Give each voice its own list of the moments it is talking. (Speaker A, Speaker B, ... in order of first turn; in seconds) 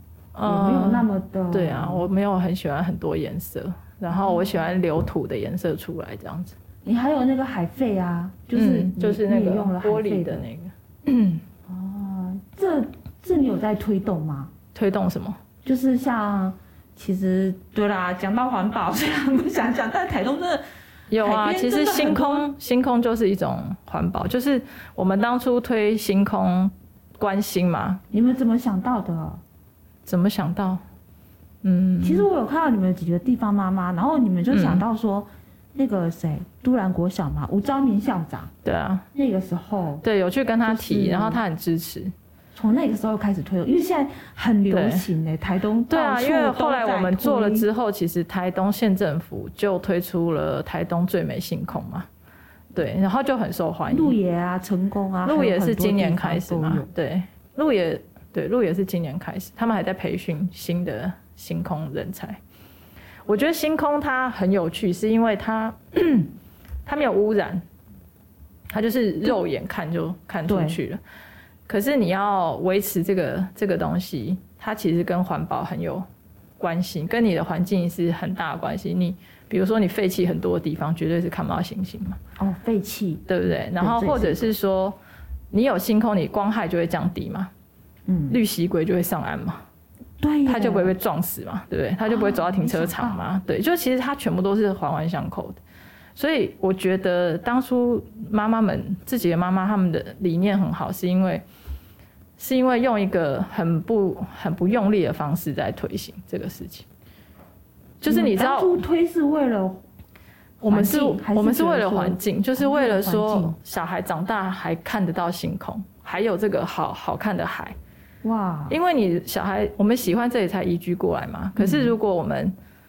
Speaker A: 0.3-6.6, 8.5-11.4, 14.8-15.4, 21.1-28.0, 30.1-30.8, 31.6-32.3, 34.5-34.9, 38.6-39.1, 40.0-42.1, 44.7-45.1, 45.9-52.1, 52.7-54.2, 55.2-62.4, 63.3-66.3, 66.9-67.6, 68.7-71.0, 71.7-76.1, 76.6-82.2, 83.3-85.0, 85.5-87.5, 88.3-89.6, 90.5-95.6, 96.2-101.4, 102.4-106.9, 108.0-108.8, 110.6-117.8, 118.7-122.5
Speaker B: 0.4-2.1, 4.2-4.4, 6.8-10.5, 11.7-14.5, 15.6-20.6, 21.2-22.5, 28.1-29.4, 32.0-38.5, 39.1-40.0, 40.6-41.4, 42.5-47.7, 53.9-56.9, 70.5-70.8, 82.4-84.5, 88.1-88.4, 90.2-90.9, 92.1-93.2, 108.1-109.8, 110.7-113.5, 118.2-118.8, 121.6-121.9